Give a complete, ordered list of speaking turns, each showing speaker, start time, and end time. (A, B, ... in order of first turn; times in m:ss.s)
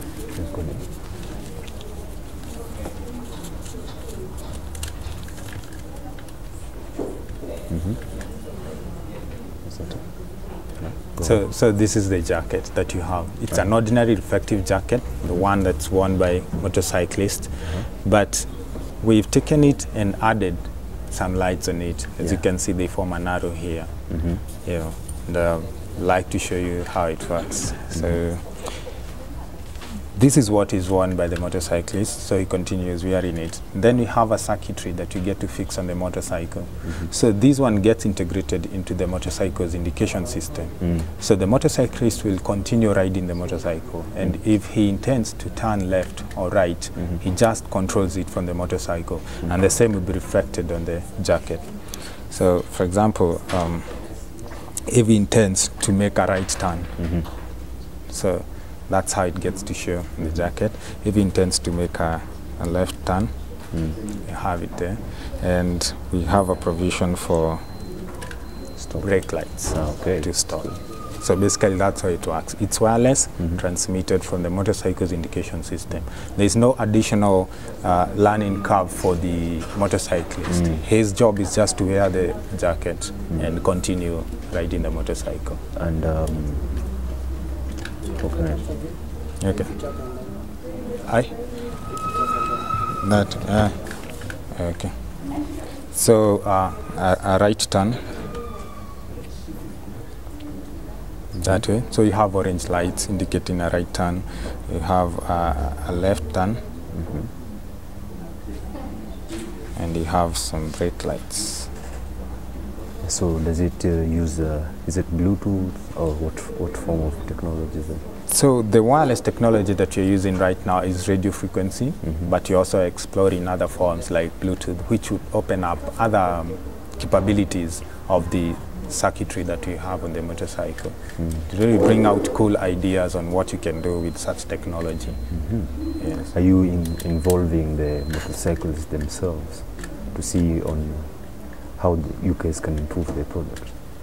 0:00.3-0:00.9 A
0:07.7-0:08.0 A
0:09.6-0:11.4 A
0:11.2-0:28.9 B
0:24.1-0:24.4 A
0:27.9-0:28.2 A
0:30.1-0:54.2 B
0:54.7-0:57.1 B
0:57.0-0:57.3 A
0:58.1-1:03.4 B
1:03.7-1:04.0 A
1:04.2-1:07.8 B
1:08.8-1:10.7 A
1:09.0-1:25.6 B
1:20.5-1:20.8 A
1:25.8-1:26.9 A
1:28.2-1:28.8 A
1:29.4-1:30.0 B
1:31.0-1:31.9 B
1:32.9-1:38.2 B
1:41.4-1:41.6 A
1:41.4-1:46.6 B
1:46.9-1:47.3 A
1:49.8-1:51.7 B
1:53.0-1:58.0 A
1:58.3-2:16.3 B
2:11.2-2:11.5 A
2:15.3-2:23.8 A